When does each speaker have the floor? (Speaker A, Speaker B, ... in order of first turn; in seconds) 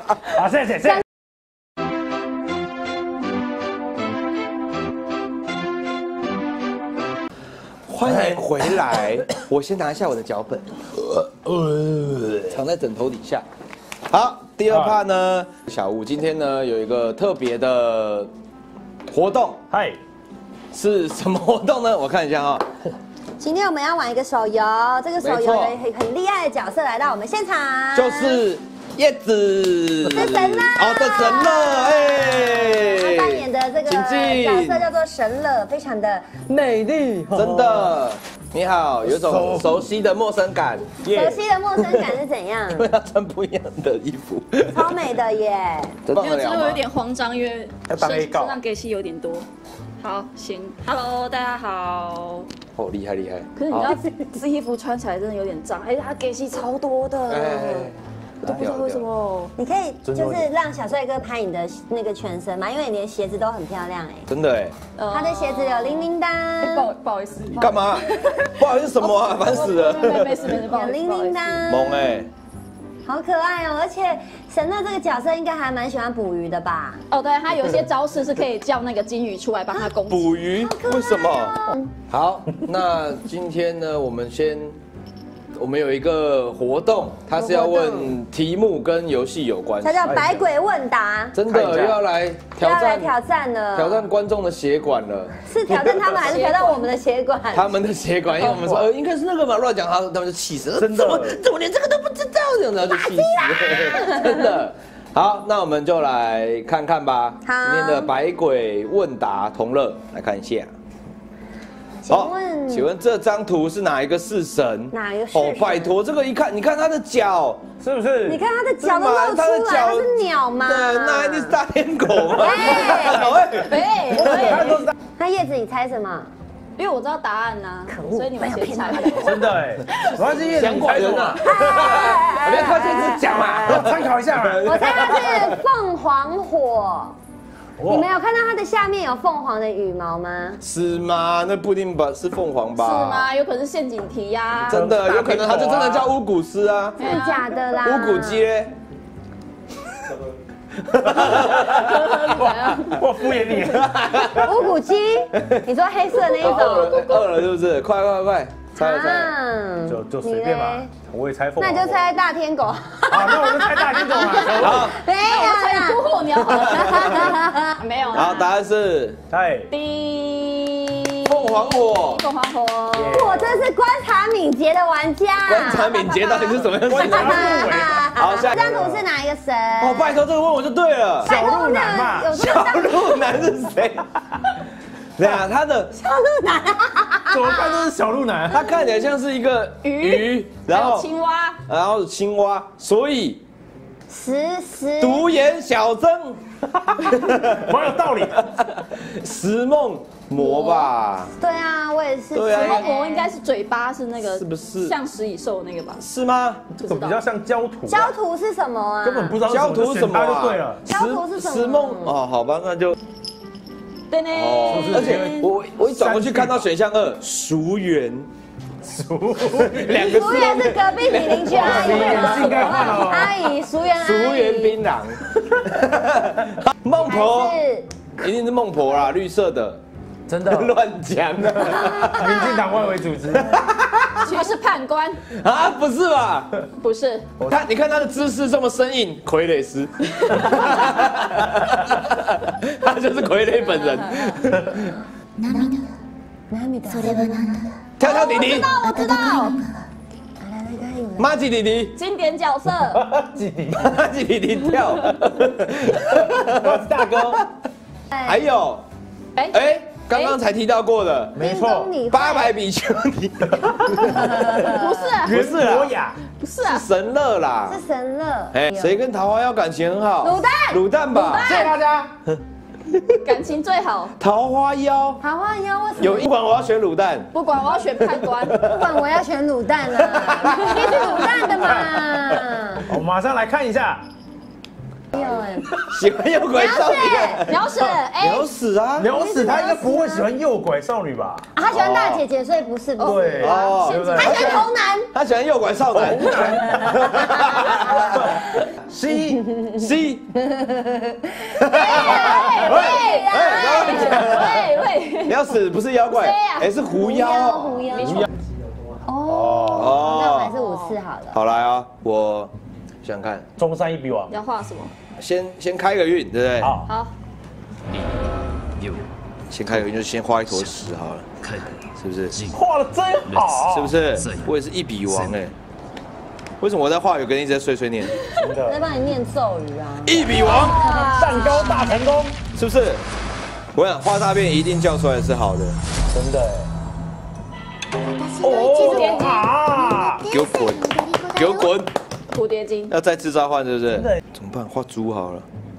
Speaker A: 0.3-1.0, 11.4-12.4, 14.7-15.0, 19.7-20.0, 36.5-37.9, 39.0-39.8, 41.0-41.4, 47.9-48.5, 60.0-60.5, 91.5-91.9, 98.4-98.8, 100.8-101.4, 117.8-118.4, 124.3-124.9, 129.2-131.5, 133.4-134.7, 137.8-138.1, 144.7-146.1, 152.4-154.0, 159.9-162.0, 163.1-164.9, 169.3-169.7, 172.9-173.6, 176.8-179.0, 181.2-182.3, 187.3-188.7, 196.9-198.5, 206.8-208.1, 209.0-210.8, 214.6-216.7, 218.8-220.0, 221.5-223.4, 230.3-230.8, 231.7-233.6, 252.9-253.9, 256.1-257.4, 261.3-261.9, 264.1-264.4, 265.2-266.2, 271.4-272.1, 281.6-281.9, 282.8-284.0, 289.0-291.5, 293.0-294.4, 295.9-297.0, 297.8-299.4, 308.0-308.3, 309.3-310.0, 313.6-314.3, 316.6-316.9, 322.5-323.9, 328.4-328.8, 331.1-332.4, 336.1-336.7, 338.4-340.3, 343.9-344.2
Speaker B: 7.9-10.8, 12.4-13.4, 14.1-18.3, 19.1-19.6, 20.7-22.7, 25.2-25.8, 27.9-34.8, 37.3-41.0, 41.8-42.2, 42.7-45.0, 46.0-46.8, 52.7-54.0, 57.3-59.1, 64.3-64.7, 67.5-70.5, 71.7-72.3, 80.0-81.5, 82.1-84.8, 85.5-90.4, 91.3-93.1, 93.7-96.3, 97.5-110.7, 112.1-117.6, 118.8-124.8, 130.5-135.6, 140.6-143.3, 144.7-147.0, 147.7-148.7, 150.8-152.2, 153.6-154.6, 155.3-159.3, 164.6-165.0, 166.5-167.3, 168.1-169.2, 171.2-172.2, 175.4-177.6, 178.2-178.7, 179.8-181.3, 182.3-184.1, 185.2-185.9, 188.5-191.1, 191.7-193.4, 195.0-196.4, 197.1-197.6, 198.4-201.3, 202.3-202.8, 204.2-204.9, 206.0-206.6, 209.4-212.9, 214.3-218.3, 219.6-223.1, 223.9-227.6, 228.2-229.8, 230.4-232.5, 233.5-234.4, 235.2-236.5, 237.4-245.0, 248.0-248.8, 251.2-252.0, 253.7-257.4, 258.1-258.8, 259.5-261.3, 262.1-265.9, 266.6-267.8, 268.5-271.6, 272.9-273.2, 274.2-275.2, 276.0-277.3, 277.9-279.0, 280.0-281.0, 285.9-289.1, 291.7-292.2, 293.4-298.6, 299.8-300.3, 301.5-308.0, 309.7-310.5, 311.3-312.5, 313.0-313.4, 315.2-316.8, 319.5-321.3, 321.9-322.5, 323.6-325.5, 326.6-328.2, 330.1-330.8, 332.5-333.0, 333.7-335.8, 340.2-341.9, 342.9-345.4
Speaker C: 23.4-28.4, 30.1-36.4, 41.0-42.9, 44.7-46.0, 59.5-64.3, 65.1-66.9, 70.6-72.1, 73.0-77.0, 80.5-81.9, 87.4-88.1, 89.8-91.4, 92.5-94.1, 95.4-97.7, 102.8-104.4, 107.4-108.1, 112.0-112.9, 114.9-115.9, 118.2-121.6, 122.4-123.3, 125.2-126.3, 127.9-129.4, 131.3-133.9, 134.6-137.2, 137.9-140.6, 147.0-148.5, 154.3-157.0, 158.7-160.9, 161.6-167.8, 173.1-180.2, 181.2-183.3, 185.9-187.9, 194.1-195.2, 200.3-203.3, 207.9-209.4, 210.9-212.2, 219.9-224.8, 226.9-227.9, 231.9-232.6, 246.5-247.6, 250.4-251.3, 261.4-262.5, 264.1-264.9, 267.7-269.0, 270.2-270.8, 275.2-276.3, 278.6-282.9, 285.1-285.8, 286.5-287.5, 289.1-290.3, 291.5-293.6, 294.2-295.1, 297.0-298.4, 299.4-299.7, 300.4-304.5, 306.9-308.3, 309.0-311.4, 328.6-331.9, 338.2-340.0, 340.8-341.4
Speaker D: 46.1-49.5, 50.0-52.5, 53.6-57.9, 58.4-59.5, 65.0-71.6, 77.1-80.4, 96.2-96.8, 123.6-124.8, 126.8-130.1, 142.8-145.1, 147.0-147.5, 151.2-153.0, 156.4-157.3, 165.2-168.5, 169.7-173.3, 189.8-191.6, 202.5-206.0, 206.8-207.2, 214.1-215.5, 234.2-235.2, 236.8-237.3, 240.3-240.7, 243.9-244.4, 248.0-249.6, 251.9-253.0, 260.1-260.4, 264.6-265.5, 266.4-266.8, 271.1-271.8, 273.2-274.1, 277.3-278.6, 280.5-281.7, 287.4-288.5, 293.0-294.6, 301.8-305.4, 306.1-306.7, 310.3-311.0, 314.3-314.9, 316.9-317.1, 330.4-332.0, 338.6-339.5, 342.3-342.9